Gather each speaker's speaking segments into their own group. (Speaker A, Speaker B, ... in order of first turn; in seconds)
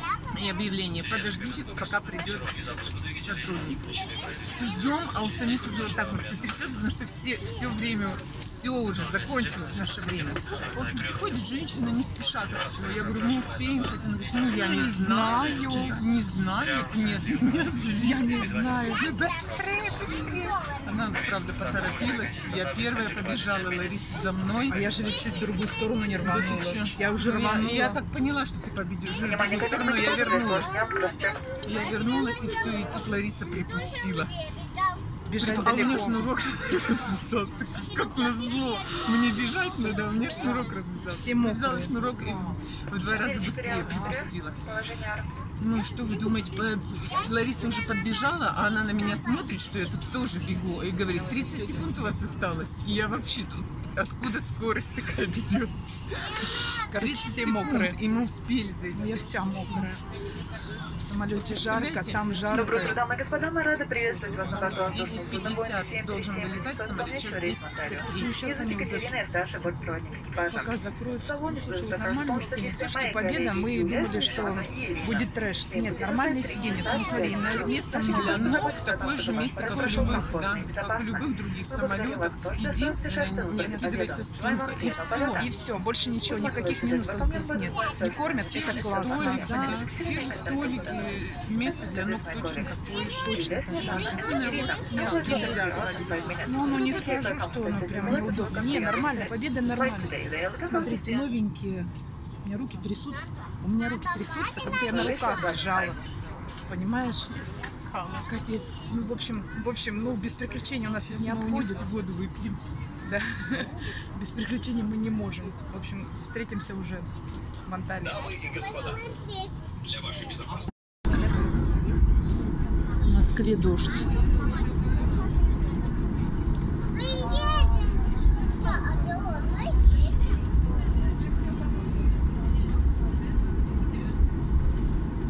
Speaker A: 0.3-18.5, 20.8-24.8, 26.2-30.9, 31.5-34.5, 35.4-44.8, 45.6-60.0, 61.4-62.4, 64.3-68.5, 78.0-85.5, 88.5-97.0, 107.7-108.3, 110.9-112.6
Speaker B: 14.6-16.0, 18.0-20.6, 24.7-28.0, 35.3-36.3, 41.1-42.1, 51.4-52.0, 56.9-58.0, 58.9-60.0, 60.9-63.0, 68.1-69.1, 70.5-78.7, 79.6-80.4, 85.4-89.8, 93.2-94.2, 94.9-95.7, 96.4-101.9, 102.4-106.0, 106.7-107.5, 108.2-112.0, 113.0-117.1, 117.6-118.3, 123.0-124.2
Speaker C: 29.4-31.4, 43.4-45.3, 62.8-70.6, 71.8-73.9, 74.5-74.9, 76.1-76.8, 77.8-81.1, 81.8-85.5, 86.6-91.1, 91.9-99.2, 100.0-100.7